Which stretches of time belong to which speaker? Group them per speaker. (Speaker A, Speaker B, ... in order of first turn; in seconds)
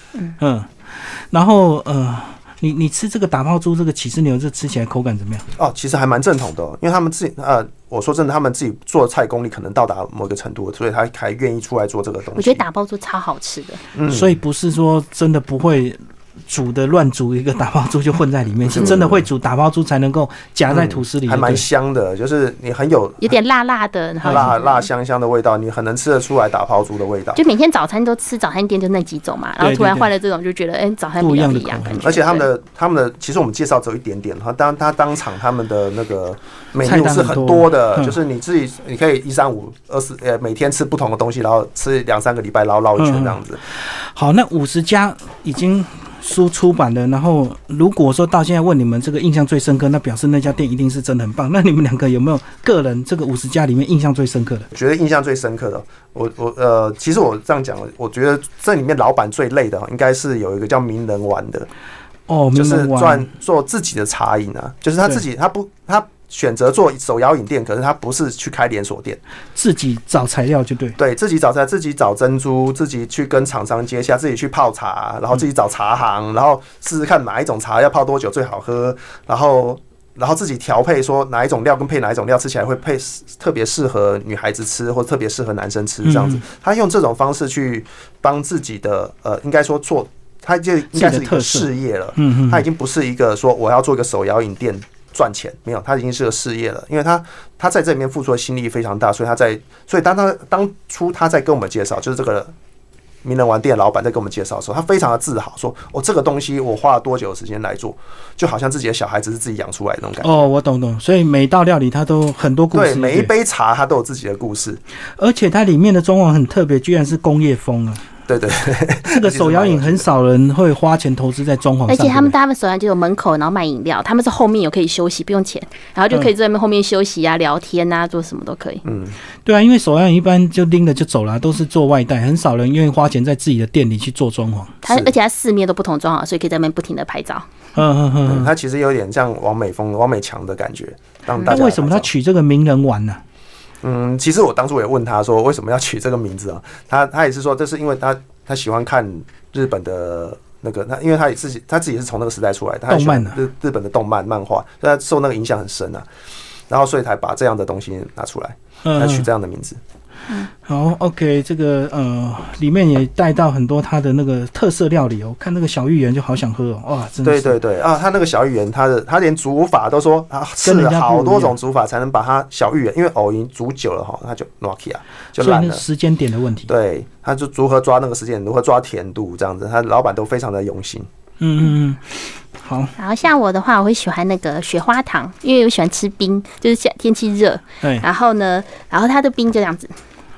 Speaker A: 0.4-5.4, 14.1-21.6, 29.6-30.1, 31.2-32.0, 36.8-38.2, 43.0-54.7, 62.3-63.3, 69.5-71.0, 86.0-86.4, 90.9-92.6, 110.2-113.3, 115.2-118.0, 119.1-122.3, 129.4-134.8, 137.8-138.5, 141.4-143.2, 152.9-153.4, 158.8-159.3, 160.6-167.6, 170.6-171.5, 175.4-176.7, 181.4-182.9
Speaker B: 5.6-12.6, 13.9-14.4, 18.6-19.2, 20.7-23.4, 24.2-27.4, 32.0-43.6, 54.7-61.7, 62.5-69.2, 71.0-102.5, 103.2-110.3, 112.7-114.8, 118.3-120.1, 128.8-129.2, 134.9-135.1, 138.2-142.1, 143.8-156.1, 156.7-159.8, 167.2-175.8, 176.7-181.1
Speaker C: 12.3-13.8, 23.2-24.9, 27.4-32.5, 121.9-128.8, 134.8-137.5, 183.0-189.9